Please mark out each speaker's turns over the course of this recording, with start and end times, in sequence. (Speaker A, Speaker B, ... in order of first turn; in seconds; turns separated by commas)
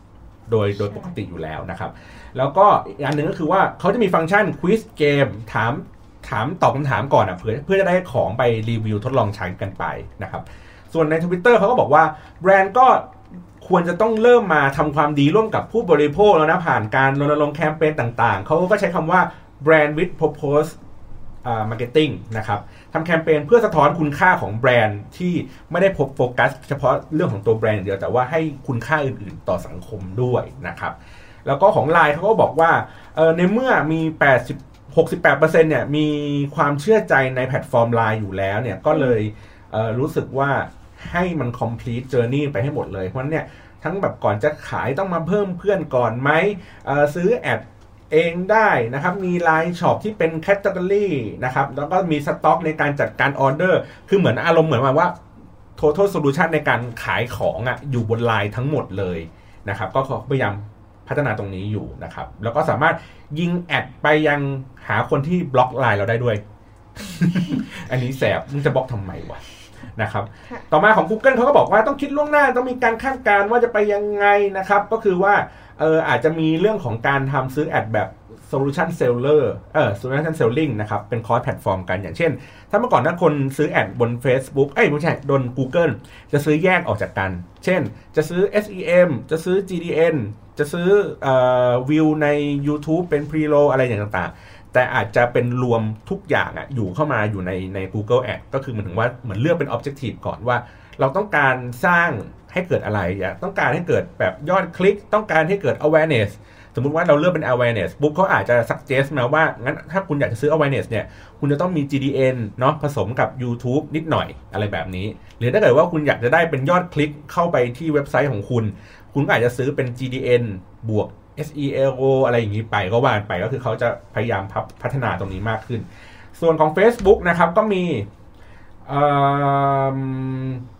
Speaker A: 0.5-20.8, Speaker A: 21.4-55.1, Speaker A: 55.8-66.4, Speaker A: 67.0-69.4, Speaker A: 70.0-125.8, Speaker A: 126.4-128.1, Speaker A: 128.8-130.6